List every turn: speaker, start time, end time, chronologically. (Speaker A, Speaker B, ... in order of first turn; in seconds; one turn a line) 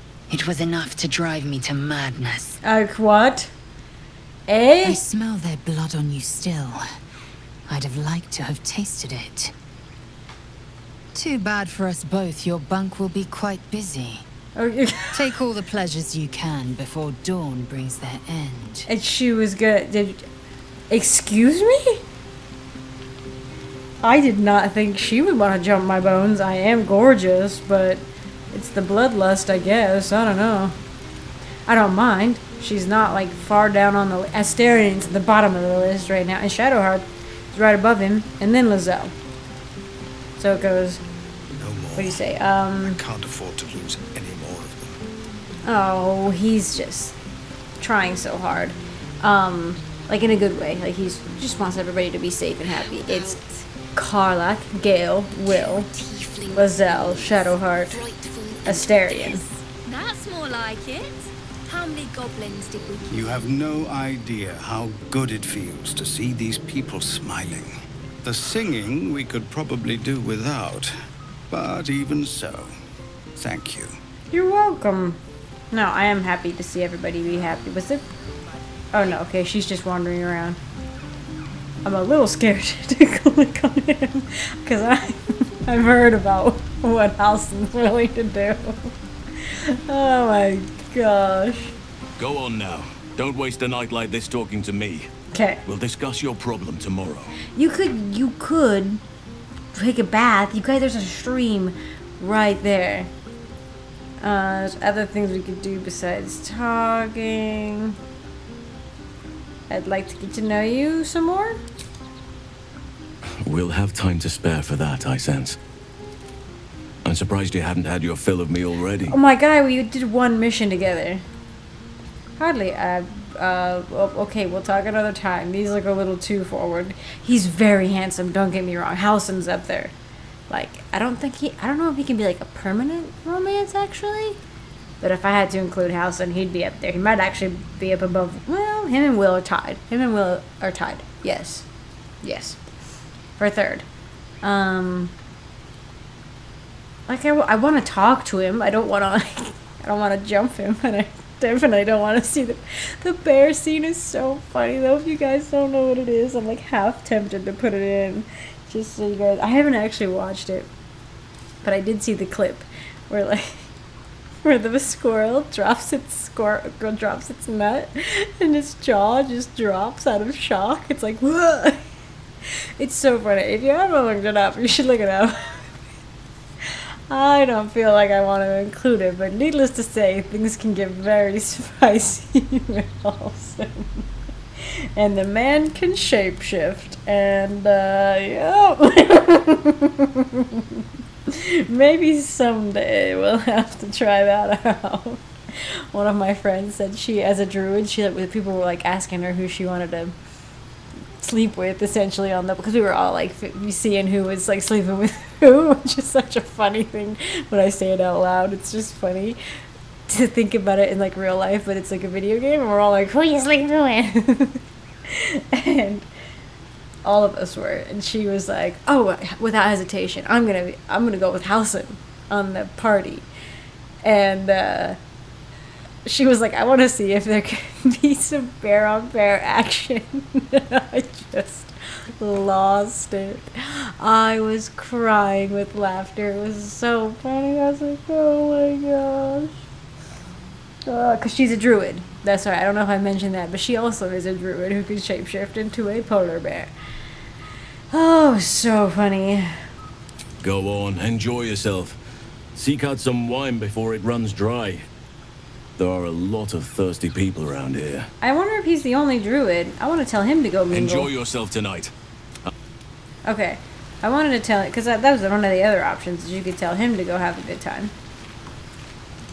Speaker A: 0.3-2.6
Speaker B: 2.6-3.5
Speaker B: 4.5-5.0
Speaker A: 4.8-6.8
Speaker A: 7.7-9.5
Speaker A: 11.1-14.2
Speaker B: 14.6-15.2
Speaker A: 15.1-18.9
Speaker B: 18.9-20.2
Speaker B: 20.9-22.0
Speaker B: 24.0-30.7
Speaker B: 31.7-39.1
Speaker B: 40.4-41.0
Speaker C: 41.5-42.2
Speaker B: 42.0-43.0
Speaker C: 42.8-45.0
Speaker B: 45.6-47.1
Speaker B: 47.8-53.4
Speaker D: 52.6-53.6
Speaker B: 53.9-55.9
Speaker D: 55.5-63.2
Speaker B: 56.5-58.0
Speaker B: 58.6-59.4
Speaker C: 63.1-67.7
Speaker C: 68.2-70.9
Speaker C: 71.5-72.7
Speaker C: 73.3-74.0
Speaker B: 74.3-75.2
Speaker B: 75.7-78.0
Speaker B: 78.9-80.6
Speaker B: 81.8-88.9
Speaker B: 89.5-91.7
Speaker E: 92.2-95.1
Speaker B: 95.3-95.6
Speaker E: 95.6-97.3
Speaker B: 97.5-99.0
Speaker B: 99.7-103.1
Speaker B: 104.2-108.0
Speaker B: 109.7-111.6
Speaker E: 113.4-115.6
Speaker E: 117.0-119.2
Speaker B: 119.1-121.2
Speaker B: 122.4-129.9
Speaker B: 130.5-134.4
Speaker B: 135.0-141.7
Speaker B: 142.2-142.6
Speaker B: 143.4-143.8
Speaker B: 144.4-145.1
Speaker B: 147.1-160.7
Speaker B: 161.6-163.7
Speaker B: 164.4-171.8
Speaker B: 172.8-175.6
Speaker B: 176.6-184.0
Speaker B: 184.9-200.1
Speaker B: 201.2-209.4
Speaker B: 210.1-216.1
Speaker B: 217.0-223.2
Speaker B: 224.0-225.0
Speaker B: 226.0-239.5
Speaker B: 240.8-246.7
Speaker B: 247.9-249.6
Speaker E: 250.4-252.0
Speaker E: 252.5-254.8
Speaker E: 255.8-258.1
Speaker B: 258.2-261.1
Speaker E: 260.7-261.9
Speaker B: 263.2-267.9